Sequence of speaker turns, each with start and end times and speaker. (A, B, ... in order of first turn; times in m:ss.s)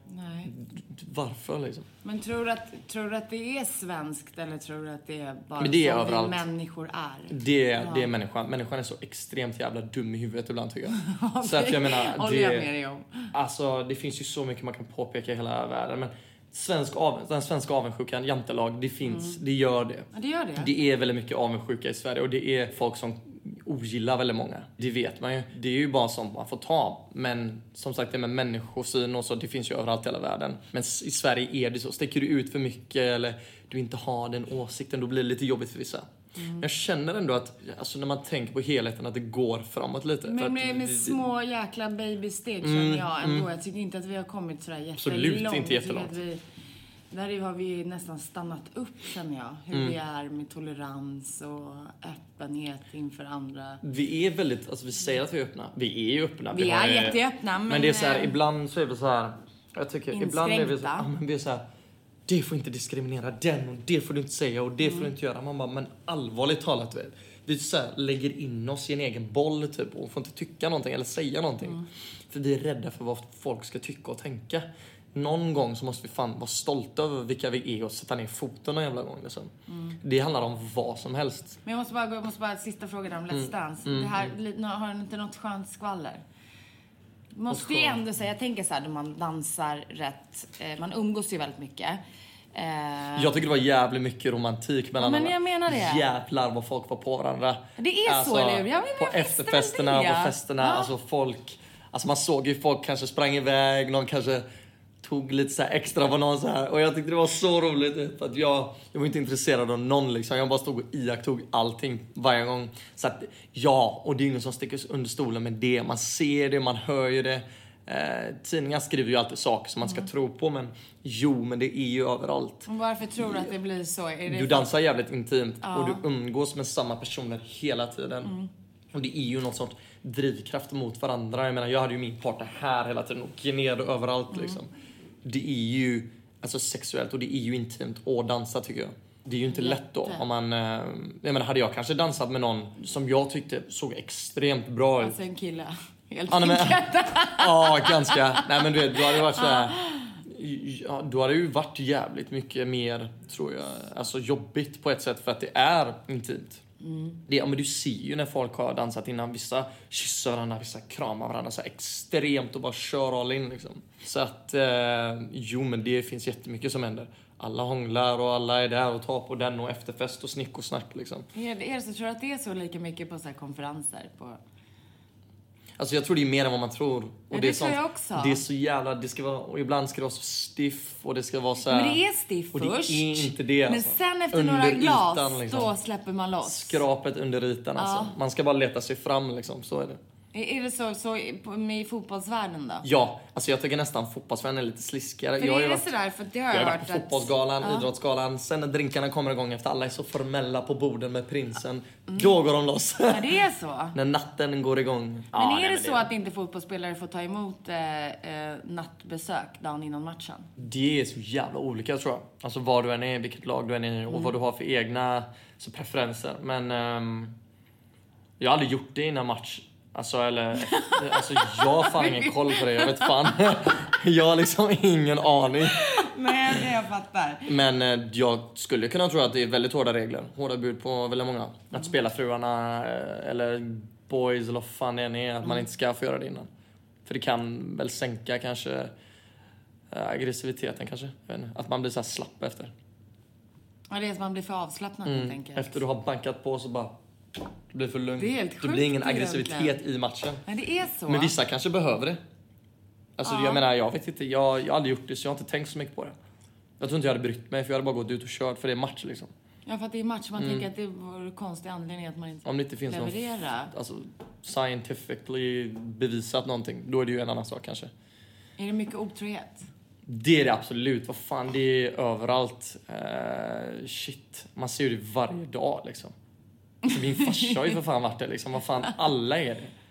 0:00.1-0:00.5 A
0:00.5-0:01.9 B
0:02.0-0:08.1 A
0:05.6-0:06.4 B
0:07.3-0:12.7 B
0:11.0-0:13.3 A
0:13.3-0:36.1 B
0:19.0-0:19.4 A
0:20.1-0:20.7 A
0:36.4-0:36.7 A
0:36.6-0:41.2 B
0:40.2-0:46.4 A
0:42.6-0:43.5 B
0:45.0-0:46.2 B
0:47.1-0:53.8 A
0:53.8-1:01.6 B
0:56.5-0:58.3 A
1:00.1-1:01.1 A
1:02.3-1:21.6 B
1:04.8-1:05.1 A
1:19.7-1:20.0 A
1:21.6-1:26.2 A
1:23.3-1:24.3 B
1:27.3-1:32.0 A
1:27.5-1:28.0 B
1:32.5-1:33.3 A
1:33.2-1:44.5 B
1:35.0-1:36.0 A
1:37.8-1:40.9 A
1:45.0-2:02.7 B
1:59.8-2:00.1 A
2:02.7-2:04.7 A
2:04.3-2:08.3 B
2:05.6-2:06.0 A
2:08.9-2:14.7 B
2:14.3-2:14.6 A
2:15.2-2:25.2 B
2:19.5-2:20.2 A
2:25.0-2:30.1 A
2:26.3-2:36.6 B
2:36.8-2:37.2 A
2:37.3-2:51.3 B
2:51.3-2:54.4 A
2:55.8-3:02.0 B
2:57.3-2:58.4 A
3:01.6-3:06.8 A
3:02.5-3:05.7 B
3:06.4-3:10.0 B
3:07.8-3:08.2 A
3:10.3-3:12.9 A
3:12.8-3:15.9 B
3:15.4-3:17.9 A
3:16.5-3:23.4 B
3:22.1-3:22.3 A
3:23.1-3:24.0 A
3:23.9-3:26.1 B
3:25.3-3:30.5 A
3:30.6-3:37.3 B
3:38.4-3:45.9 B
3:40.6-3:43.3 A
3:45.6-3:47.5 A
3:47.5-3:56.5 B
3:57.1-3:58.9 B
3:59.9-4:02.7 B
4:03.9-4:05.8 A
4:05.0-4:07.0 B
4:07.7-4:10.4 B
4:08.2-4:09.8 A
4:10.5-4:11.3 A
4:11.1-4:12.2 B
4:13.2-4:16.2 B
4:13.2-4:13.6 A
4:16.8-4:19.3 B
4:19.7-4:23.7 A
4:20.4-4:20.7 B
4:22.4-4:27.9 B
4:28.6-4:29.7 A
4:30.1-4:36.1 B
4:36.9-4:39.7 B
4:37.2-4:37.7 A